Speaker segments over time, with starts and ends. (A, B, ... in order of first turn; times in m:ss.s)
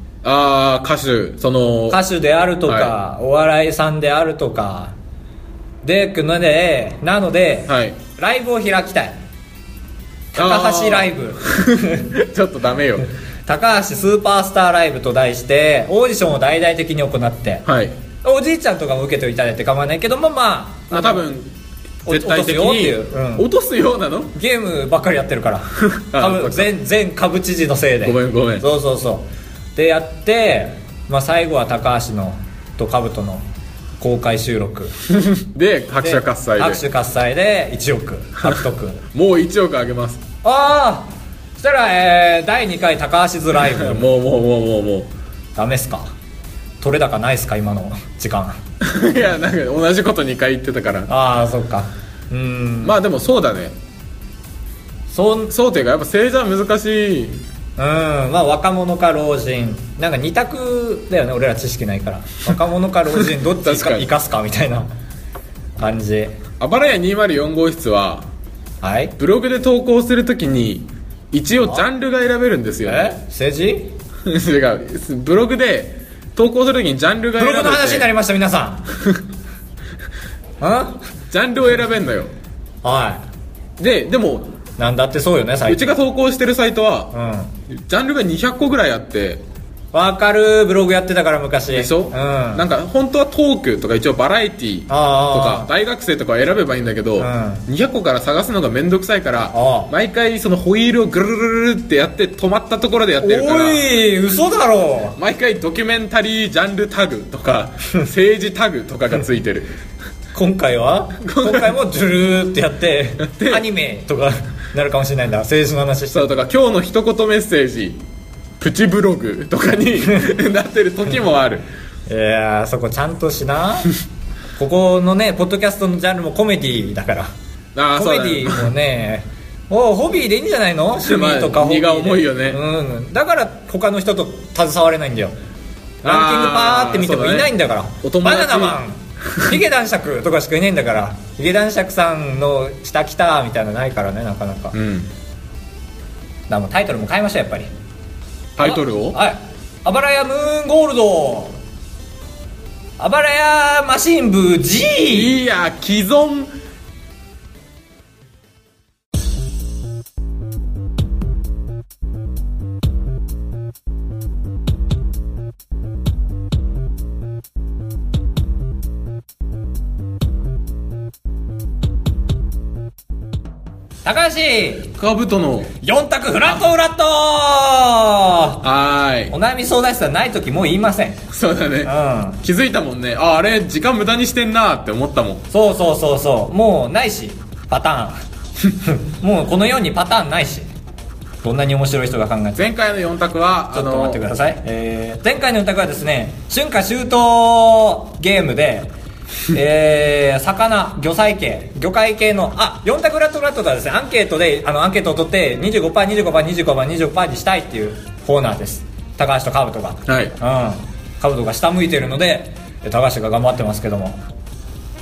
0:00.2-0:02.0 A
0:01.9-0:05.0 B
0:02.7-0:02.9 A
0:05.8-0:09.2 B
0:07.7-0:08.0 A
0:10.3-0:12.1 B
0:10.4-0:13.1 A
0:13.5-0:17.7 B
0:17.7-0:18.0 A
0:18.2-0:21.3 B
0:20.9-0:21.5 A
0:22.1-0:23.5 B
0:22.1-0:24.3 A
0:24.4-0:33.5 B
0:25.8-0:26.7 A
0:28.0-0:28.7 A
0:34.0-0:34.9 B
0:35.1-0:36.8 A
0:36.0-0:39.0 B
0:39.1-0:40.2 A
0:40.4-0:44.1 B
0:43.6-0:45.1 A
0:45.6-0:46.1 B
0:46.8-0:48.6 B
0:48.8-0:51.1 A
0:51.1-0:53.0 B
0:52.8-0:53.8 A
0:55.1-0:55.5 B
0:55.5-0:57.4 A
0:57.8-1:04.9 B
1:03.6-1:04.1 A
1:05.8-1:06.4 B
1:06.6-1:08.3 A
1:08.8-1:09.1 B
1:09.2-1:13.1 A
1:11.6-1:11.8 B
1:12.9-1:13.9 B
1:14.2-1:18.1 A
1:17.4-1:18.9 B
1:20.6-1:21.0 B
1:21.3-1:22.3 A
1:22.8-1:23.2 B
1:23.8-1:24.5 A
1:24.8-1:26.0 B
1:25.7-1:27.1 A
1:27.1-1:27.5 B
1:27.7-1:29.4 A
1:29.9-1:32.7 B
1:31.7-1:43.8 A
1:34.9-1:35.7 B
1:37.2-1:37.6 B
1:39.5-1:39.9 B
1:43.2-1:45.2 B
1:45.2-1:49.7 A
1:50.3-1:56.4 B
1:51.2-1:51.8 A
1:53.2-1:53.7 A
1:56.1-1:58.0 A
1:58.6-2:01.6 A
2:02.1-2:03.9 B
2:04.6-2:07.3 B
2:07.8-2:08.7 A
2:07.9-2:15.4 B
2:11.0-2:12.6 A
2:16.0-2:24.8 B
2:16.0-2:18.8 A
2:24.7-2:25.1 A
2:26.5-2:27.7 B
2:28.6-2:29.2 A
2:28.6-2:31.6 B
2:33.0-2:35.4 B
2:35.1-2:36.5 A
2:54.0-2:54.9 B
2:55.0-2:55.7 A
2:55.8-2:58.6 B
2:58.6-2:59.3 A
2:59.3-3:01.2 B
3:01.3-3:05.4 A
3:01.8-3:02.4 B
3:05.5-3:08.2 B
3:08.7-3:10.7 B
3:11.4-3:12.7 B
3:12.6-3:14.2 A
3:13.7-3:18.9 B
3:19.5-3:34.2 B
3:30.1-3:30.4 A